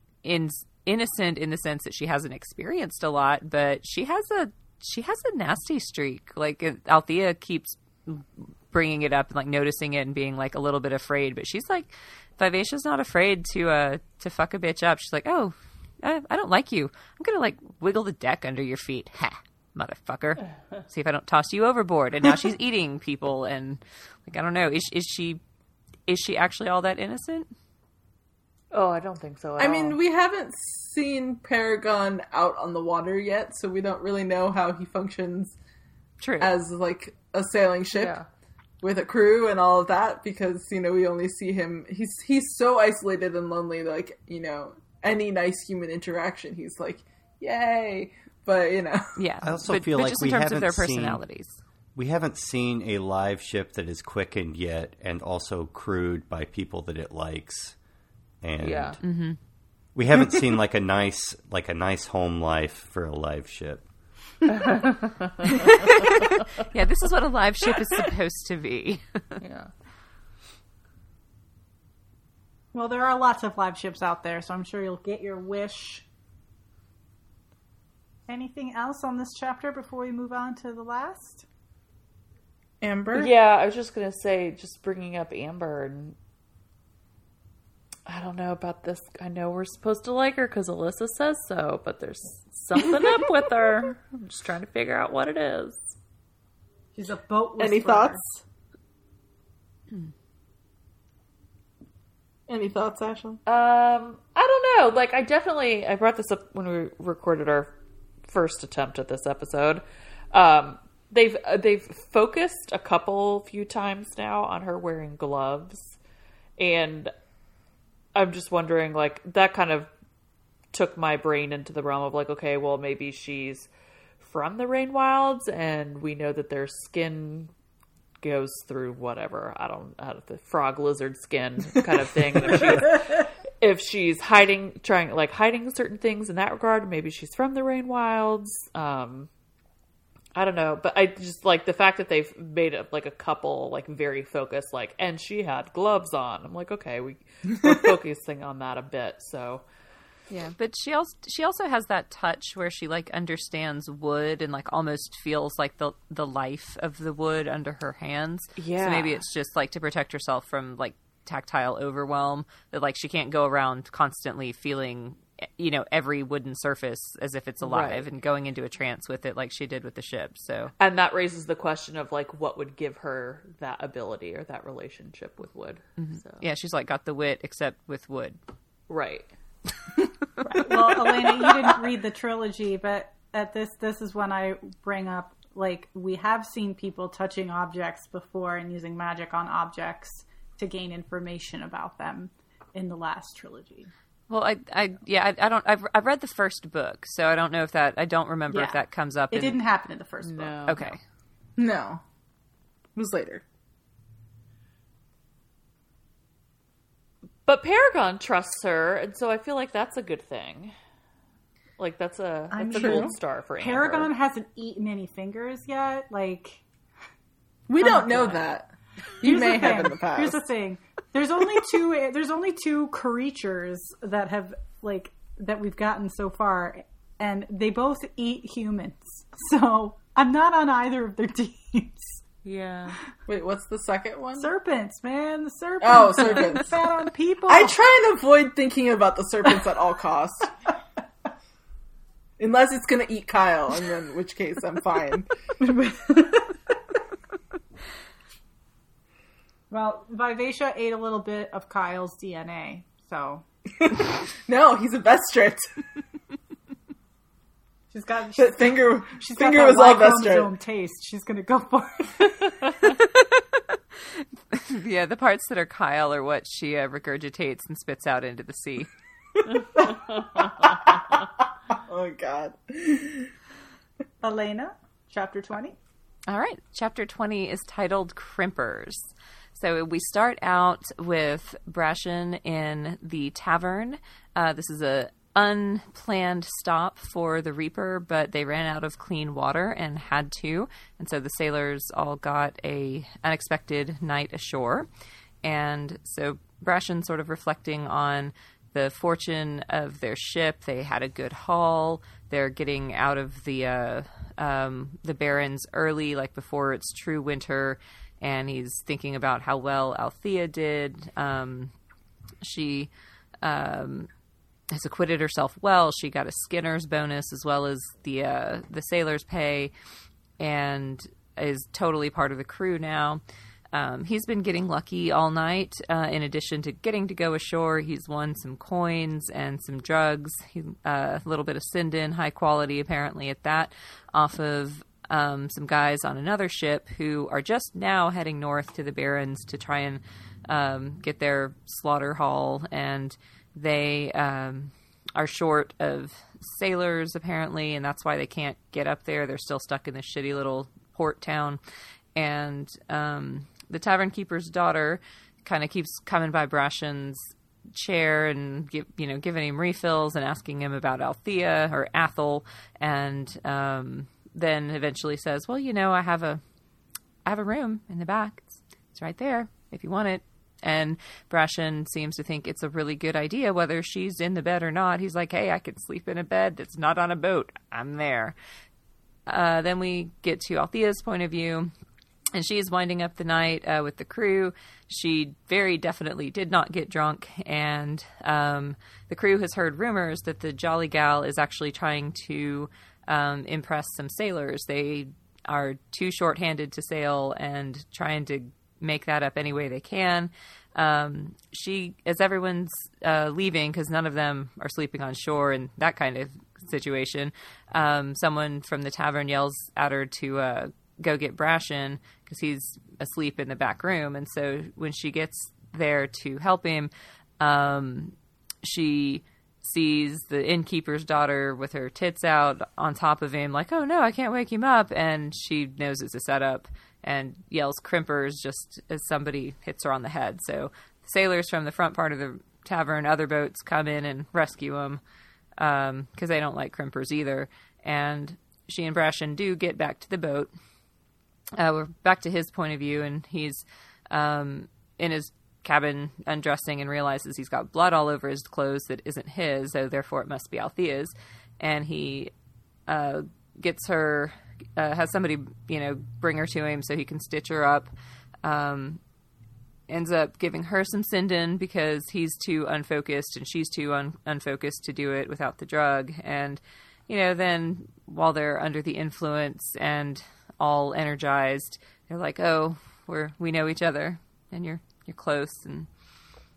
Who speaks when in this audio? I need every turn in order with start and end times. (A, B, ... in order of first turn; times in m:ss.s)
0:00.2-0:25.4 A
0:26.1-0:27.5 A
0:28.7-0:30.0 B
0:29.6-0:35.5 C
0:36.2-0:36.5 A
0:36.4-0:38.2 C
0:37.9-0:38.2 B
0:38.8-0:49.0 C
0:49.2-0:51.6 A
0:49.4-0:51.2 D
0:51.9-0:57.8 D
0:58.4-0:59.0 D
0:58.6-0:59.0 B
0:59.0-0:59.4 A
0:59.9-1:03.8 D
1:04.5-1:05.5 B
1:06.6-1:09.4 A
1:09.4-1:09.7 B
1:12.7-1:16.0 E
1:18.3-1:21.4 E
1:22.8-1:23.3 C
1:23.1-1:26.2 B
1:28.0-1:36.0 B
1:36.9-1:38.2 E
1:37.6-1:38.4 C
1:42.5-1:43.4 C
1:43.4-1:47.7 B
1:48.3-1:56.0 B
1:56.6-1:57.1 B
1:58.1-1:59.9 B
2:00.7-2:03.7 B
2:04.2-2:07.5 B
2:08.2-2:19.3 B
2:20.3-2:29.6 B
2:30.4-2:50.7 A
2:38.6-2:39.2 B
2:47.6-2:48.0 B
2:50.8-2:56.4 B
2:56.0-2:58.4 A
2:58.9-2:59.3 B
3:00.4-3:13.9 E
3:14.3-3:19.6 A
3:18.5-3:20.9 E
3:20.2-3:20.8 B
3:20.6-3:21.0 A
3:21.6-3:22.0 C
3:23.0-3:23.4 C
3:27.4-3:30.7 B
3:31.8-3:34.1 B
3:32.5-3:36.6 E
3:32.7-3:33.1 C
3:37.7-3:40.4 C
3:37.8-3:38.5 E
3:39.2-3:52.2 E
3:52.4-3:53.0 B
3:53.3-3:54.5 C
3:54.4-3:57.8 E
3:55.8-3:56.8 C
3:57.5-4:00.5 C
4:02.4-4:05.3 C
4:05.6-4:06.6 E
4:09.7-4:13.4 E
4:13.8-4:15.8 C
4:17.9-4:22.9 E
4:18.4-4:20.5 C
4:24.5-4:28.9 A
4:29.4-4:33.3 C
4:34.2-4:35.8 E
4:36.3-4:54.9 A
4:55.4-5:11.7 A
5:12.4-5:12.9 A
5:13.4-5:14.1 A
5:14.7-5:19.7 A
5:20.4-5:51.6 A
5:52.1-6:06.4 A
6:07.2-6:18.3 A
6:19.3-6:21.7 A
6:22.3-7:15.0 A
7:15.6-7:20.5 A
7:21.6-7:32.3 A
7:32.9-7:37.9 A
7:38.4-7:39.0 A
7:39.9-7:55.9 A